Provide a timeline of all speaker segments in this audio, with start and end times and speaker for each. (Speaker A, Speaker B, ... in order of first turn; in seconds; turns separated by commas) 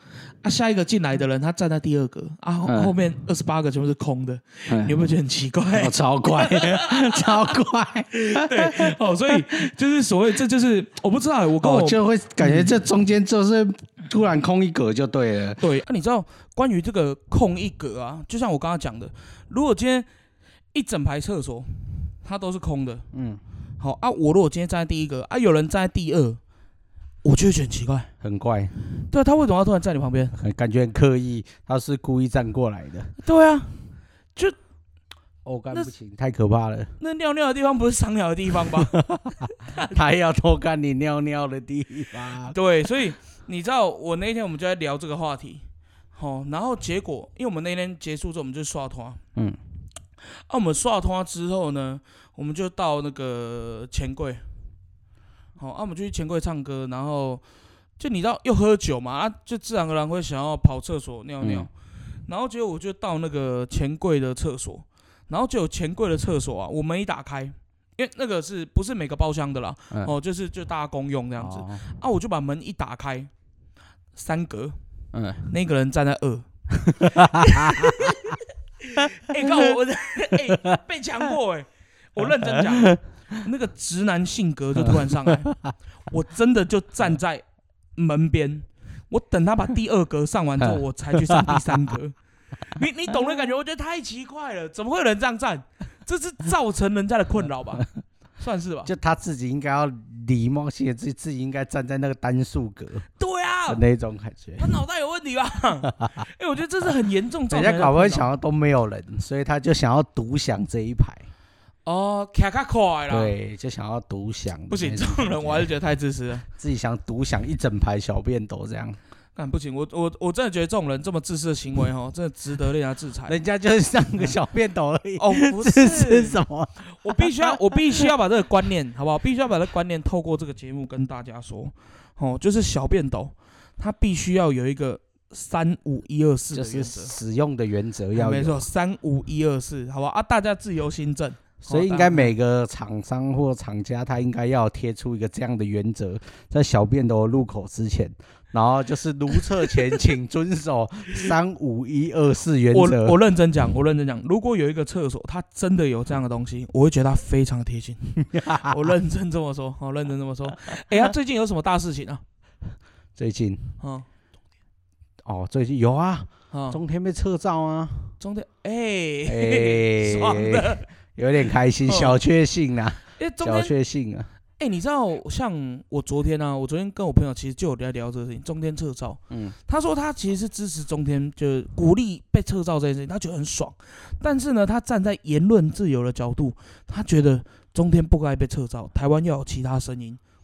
Speaker A: 0.4-7.5, Speaker B: 2.7-2.9, Speaker B: 4.7-5.0, Speaker B: 5.7-9.7, Speaker A: 8.1-12.7, Speaker B: 11.6-15.6, Speaker A: 15.6-20.1, Speaker A: 20.7-23.1, Speaker B: 23.1-23.4, Speaker A: 23.8-26.4, Speaker A: 27.2-28.1, Speaker B: 28.2-28.7, Speaker A: 29.1-30.4, Speaker B: 30.3-33.1, Speaker A: 33.2-33.8, Speaker B: 35.4-36.9, Speaker A: 37.0-38.9, Speaker B: 38.7-42.6, Speaker A: 42.5-45.6, Speaker A: 46.1-49.2, Speaker A: 50.5-54.4, Speaker A: 55.6-57.4, Speaker A: 58.0-61.7, Speaker B: 61.4-61.7, Speaker A: 62.3-73.3, Speaker B: 71.4-71.8, Speaker A: 74.2-74.8, Speaker B: 75.1-75.5, Speaker A: 75.5-76.5, Speaker B: 76.8-78.1, Speaker A: 77.0-85.5, Speaker B: 79.4-79.7, Speaker B: 82.5-83.0, Speaker B: 84.8-85.7, Speaker A: 86.1-87.4, Speaker A: 88.0-97.9, Speaker B: 90.6-92.0, Speaker A: 98.4-98.9, Speaker B: 98.9-103.0, Speaker A: 103.2-103.8, Speaker B: 103.7-104.8, Speaker A: 104.6-108.3, Speaker B: 105.9-106.2, Speaker B: 107.5-111.2, Speaker A: 111.8-113.3, Speaker B: 113.1-115.7, Speaker A: 114.7-116.4, Speaker B: 116.5-119.0, Speaker A: 119.4-123.4, Speaker B: 123.3-128.1, Speaker A: 125.2-137.1, Speaker B: 136.5-138.6, Speaker A: 138.1-142.3, Speaker B: 141.7-153.2, Speaker A: 152.7-162.2, Speaker B: 158.2-158.9, Speaker B: 163.2-163.7, Speaker A: 163.8-164.1, Speaker B: 165.2-168.1, Speaker A: 166.5-166.8, Speaker A: 168.2-170.9, Speaker B: 169.3-174.3, Speaker A: 171.9-172.2, Speaker A: 173.2-173.7, Speaker A: 174.6-190.2, Speaker B: 179.3-179.6